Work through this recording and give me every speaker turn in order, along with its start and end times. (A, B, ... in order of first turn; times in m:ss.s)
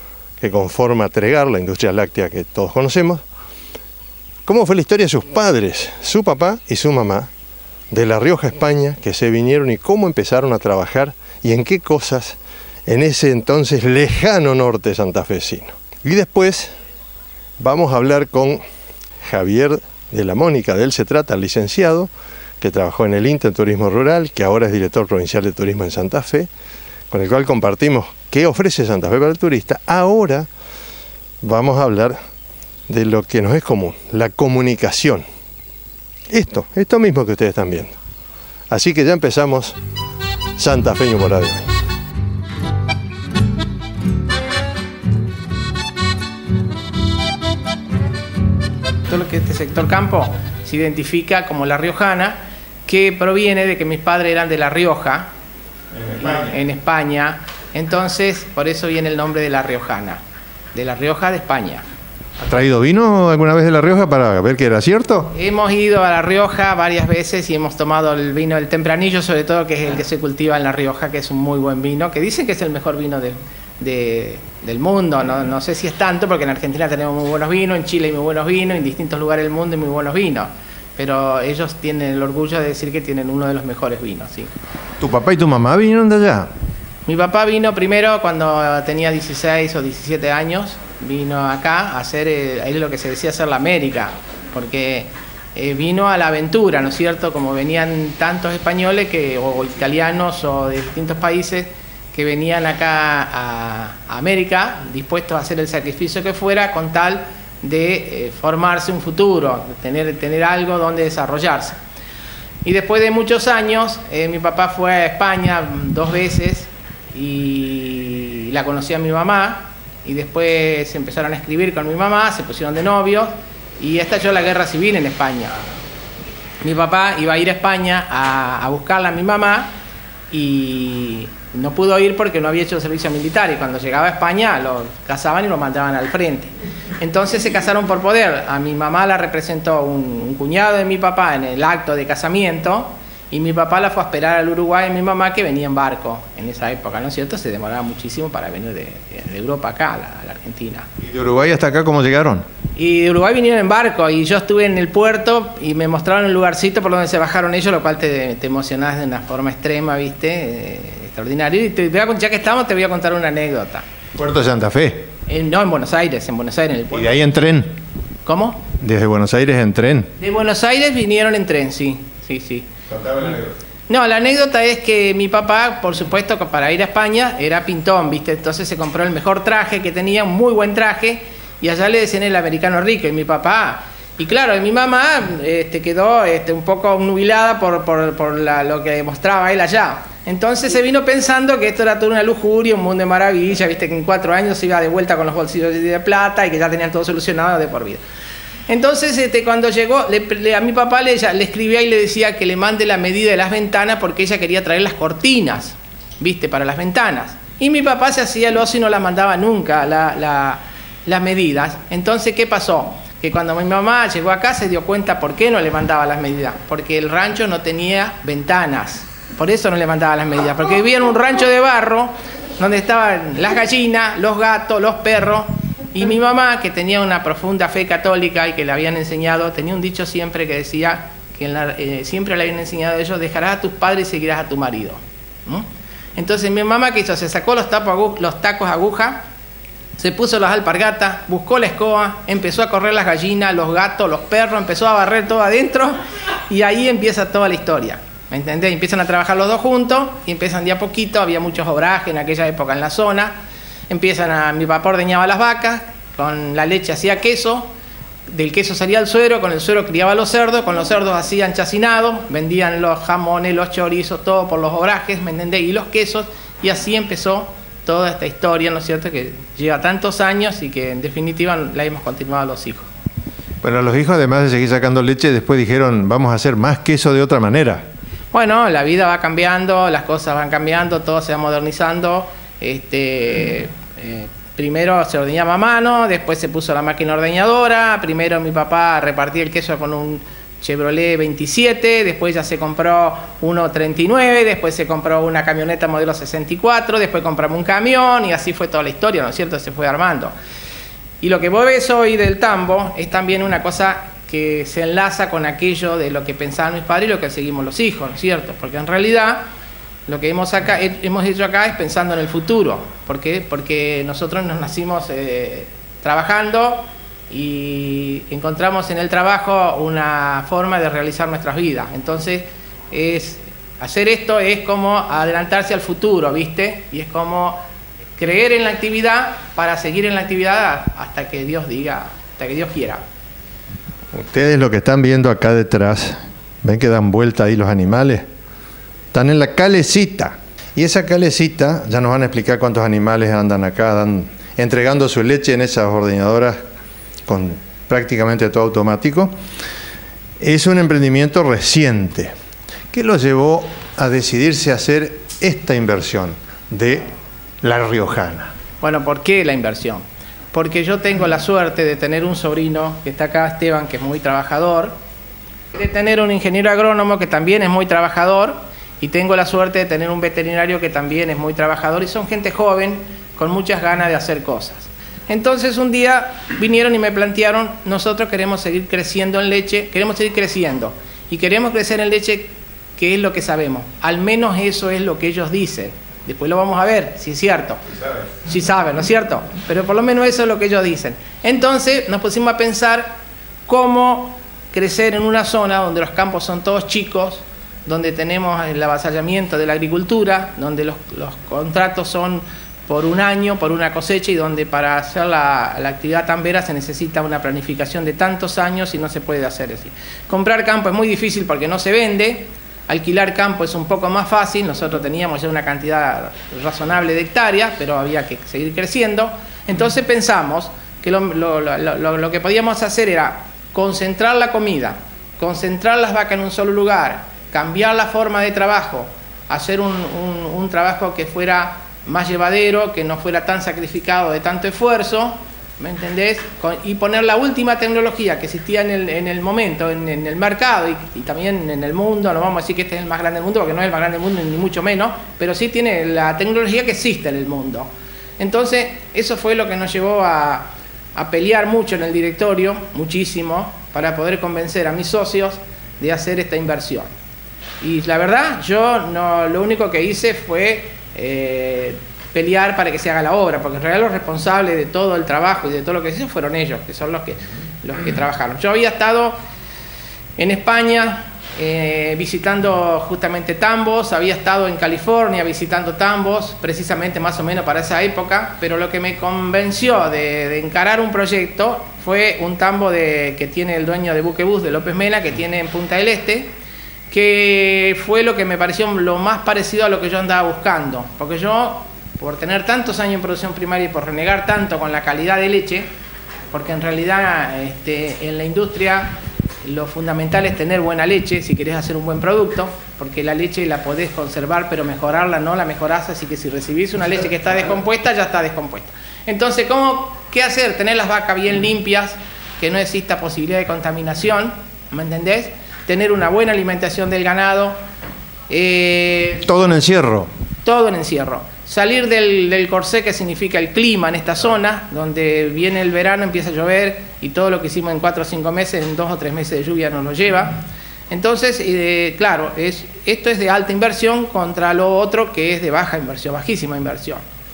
0:00.4-0:03.2 A
0:04.4-0:07.3 A
0:07.9-0:16.7 A
0:17.6-0:18.6 A
0:19.2-0:26.5 A
0:27.1-0:30.5 A
0:31.4-0:32.2 A
0:32.9-0:35.2 A
0:36.3-0:37.9 A
0:38.7-0:39.8 A
0:40.6-0:41.7 A
0:49.1-0:55.3 B
0:56.0-0:56.5 A
0:56.1-1:00.2 B
1:00.7-1:01.8 B
1:02.4-1:05.3 A
1:05.3-1:24.5 B
1:25.0-1:26.5 A
1:27.0-1:51.8 B
1:52.6-2:05.6 B
2:06.6-2:09.7 B
2:10.3-2:30.9 B
2:31.0-2:32.4 A
2:32.8-2:43.8 B
2:44.2-2:45.1 A
2:45.3-2:47.2 B
2:46.9-2:47.7 A
2:48.2-2:48.6 B
2:48.8-2:50.1 A
2:50.2-2:52.7 B
2:52.9-2:53.5 A
2:53.9-3:18.0 B
3:18.7-3:59.2 B
4:00.0-4:06.0 B
4:06.5-4:13.4 B
4:13.9-4:17.7 B
4:18.3-4:32.9 B
4:33.6-4:37.8 A
4:38.3-5:00.3 B
5:01.2-5:09.5 B
5:10.1-5:27.6 B
5:28.2-5:33.0 B
5:34.1-5:38.2 A
5:39.1-5:46.6 A
5:47.3-5:49.3 A
5:50.4-5:52.3 A
5:52.9-5:57.1 A
5:57.6-5:58.5 A
5:58.8-6:04.9 B
6:05.7-6:27.8 B
6:28.4-6:33.2 B
6:33.7-7:37.1 B
7:37.8-7:49.3 B
7:50.4-8:06.5 B
8:07.1-8:15.9 B
8:16.5-8:37.8 B
8:38.5-8:39.4 B
8:39.4-8:40.3 A
8:40.6-8:57.2 B